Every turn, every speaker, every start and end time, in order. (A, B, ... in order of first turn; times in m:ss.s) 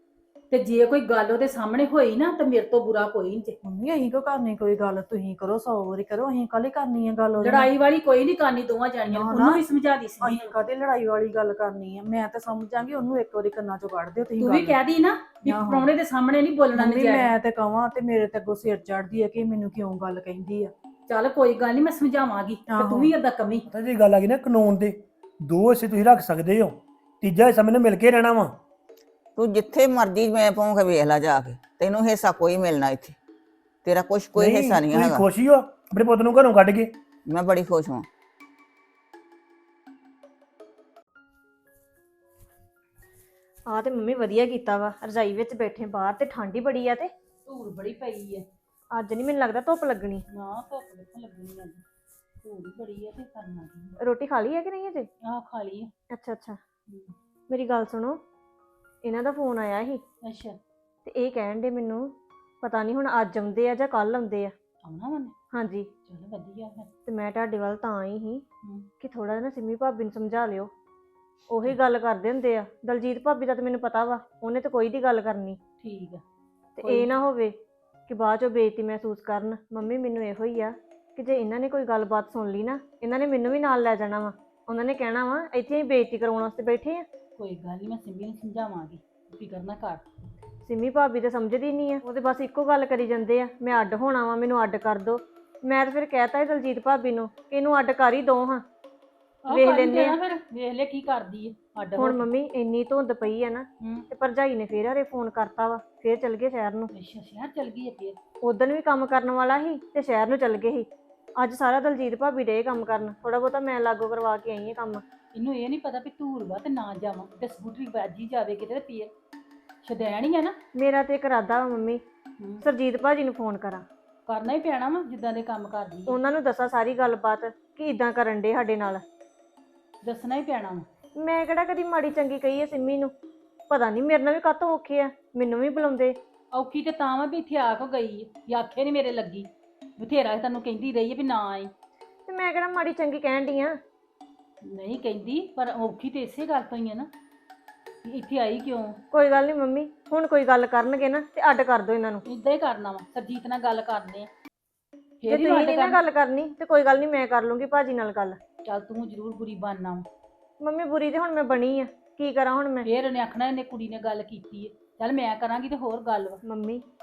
0:00.5-0:03.6 A
0:03.6-0:07.7 B
0:07.4-0:10.5 A
0:09.0-0:09.6 B
0:10.2-0:14.8 B
0:14.4-0:17.3 A
0:15.4-0:15.9 B
0:16.7-0:20.7 B
0:21.1-0:23.7 A
0:22.7-0:23.1 B
0:23.7-0:28.6 C
0:29.4-0:33.2 D
0:33.8-0:35.2 D
0:34.4-0:36.9 C
0:37.2-0:38.0 D
0:43.7-0:47.1 E
0:47.4-0:48.4 A
0:48.9-0:50.2 E
0:50.3-0:51.8 A
0:52.4-0:54.0 A
0:54.0-0:55.1 E
0:55.2-0:55.9 A
0:56.1-0:56.6 E
0:56.9-0:57.1 A
0:57.5-0:58.2 E
0:59.0-1:00.0 E
1:00.2-1:00.6 A
1:01.0-1:04.5 E
1:04.8-1:05.3 A
1:05.5-1:05.9 E
1:06.0-1:06.9 A
1:07.0-1:08.4 E
1:08.6-1:08.9 A
1:09.0-1:10.7 E
1:11.5-1:15.6 E
1:15.8-1:16.2 A
1:16.8-1:17.6 E
1:16.8-1:17.2 A
1:18.1-1:27.0 E
1:27.4-1:30.0 A
1:30.6-1:38.6 E
1:39.4-1:42.3 A
1:39.5-1:40.2 E
1:42.0-1:46.9 E
1:43.8-1:44.1 A
1:46.9-1:48.2 A
1:48.4-1:55.0 E
1:55.3-1:59.1 A
1:59.8-2:00.6 A
2:00.7-2:02.0 E
2:02.6-2:03.8 E
2:04.3-2:06.2 A
2:06.1-2:09.0 E
2:10.0-2:10.8 A
2:11.2-2:13.1 E
2:13.7-2:16.2 E
2:16.5-2:21.7 A
2:22.3-2:23.8 E
2:24.6-2:27.1 A
2:28.0-2:29.0 A
2:29.1-2:32.2 E
2:32.2-2:34.3 A
2:35.2-2:36.0 A
2:35.3-2:38.4 E
2:38.6-2:40.1 A
2:40.6-2:42.8 E
2:42.8-2:46.4 A
2:46.4-2:46.8 E